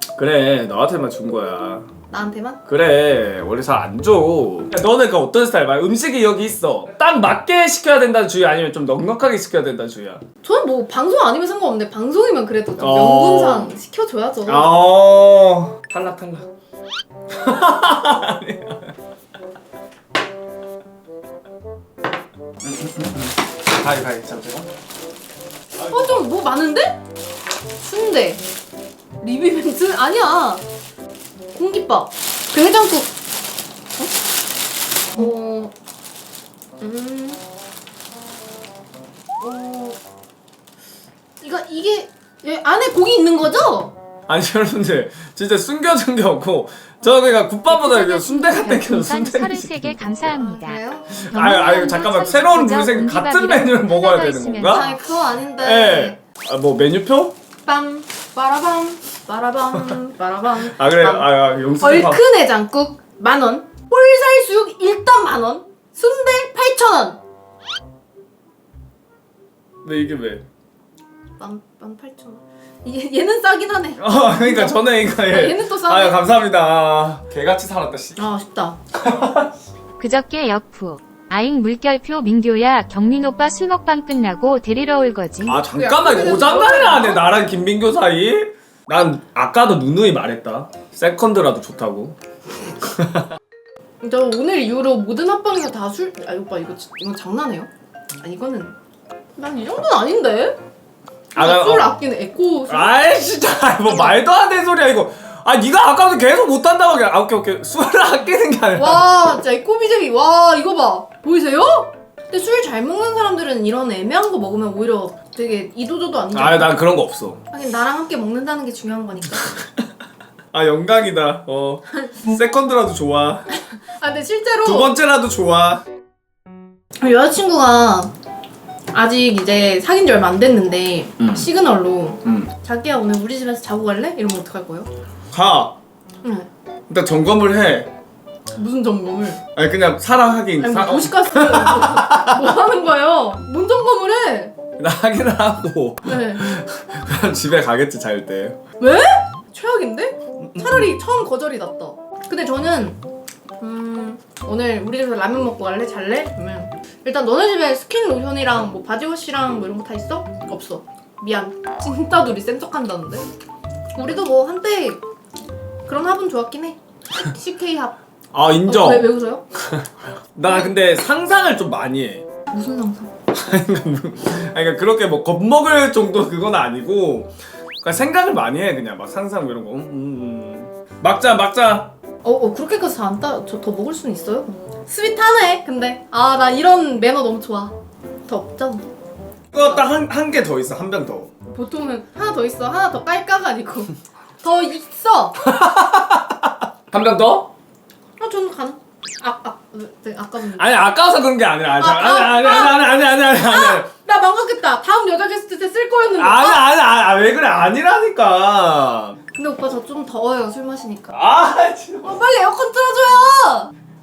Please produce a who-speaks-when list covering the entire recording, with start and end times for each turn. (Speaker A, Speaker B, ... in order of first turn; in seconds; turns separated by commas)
Speaker A: 0.2-1.9, Speaker B: 2.1-2.6, Speaker A: 2.6-10.2, Speaker B: 10.4-14.7, Speaker A: 12.8-13.7, Speaker A: 14.4-16.5, Speaker A: 17.3-18.9, Speaker A: 22.6-24.7, Speaker B: 25.8-27.0, Speaker B: 27.8-28.4, Speaker B: 29.2-30.6, Speaker B: 31.5-33.1, Speaker B: 35.1-35.7, Speaker B: 36.8-37.4, Speaker B: 39.4-40.0, Speaker B: 41.4-43.9, Speaker A: 44.3-50.4, Speaker C: 47.7-55.0, Speaker B: 50.2-51.2, Speaker A: 51.1-54.9, Speaker B: 54.6-56.1, Speaker A: 55.6-57.3, Speaker B: 57.6-67.2, Speaker A: 59.7-60.0, Speaker A: 60.6-62.2, Speaker A: 69.8-70.5, Speaker B: 71.4-76.3, Speaker A: 74.0-78.2, Speaker B: 78.2-78.8, Speaker A: 78.9-79.6, Speaker C: 80.0-85.6, Speaker A: 85.4-92.2, Speaker B: 85.6-87.3, Speaker A: 92.7-93.3, Speaker B: 94.0-97.7, Speaker B: 98.2-98.7, Speaker B: 99.4-100.6, Speaker A: 101.3-101.9, Speaker B: 101.3-104.2, Speaker A: 102.7-109.4, Speaker B: 108.7-116.8, Speaker A: 116.3-117.4, Speaker B: 117.5-119.5, Speaker A: 120.5-123.6, Speaker B: 123.5-124.9, Speaker A: 124.6-125.8, Speaker B: 127.0-128.1, Speaker B: 128.9-134.9, Speaker A: 131.2-131.5, Speaker A: 132.2-132.5, Speaker A: 135.3-135.8, Speaker B: 136.2-136.5, Speaker A: 136.9-137.9, Speaker B: 138.5-139.4, Speaker A: 139.5-142.6, Speaker B: 140.6-144.6, Speaker A: 144.8-148.6, Speaker B: 146.0-146.4, Speaker B: 148.8-153.0, Speaker A: 150.4-150.9, Speaker B: 153.6-163.3, Speaker B: 163.9-165.0, Speaker B: 165.8-167.9, Speaker A: 168.3-169.1, Speaker B: 168.6-169.4, Speaker A: 170.3-172.3, Speaker B: 170.4-170.7, Speaker B: 172.5-173.1, Speaker A: 173.3-181.9, Speaker B: 182.2-187.8, Speaker B: 188.3-188.9, Speaker A: 189.5-191.3, Speaker B: 189.5-189.9, Speaker B: 191.5-195.4, Speaker A: 195.4-197.5, Speaker B: 198.2-200.8, Speaker A: 200.5-203.9, Speaker B: 201.8-206.7, Speaker A: 206.1-209.2, Speaker B: 209.3-211.1, Speaker A: 211.1-212.2, Speaker B: 212.0-213.7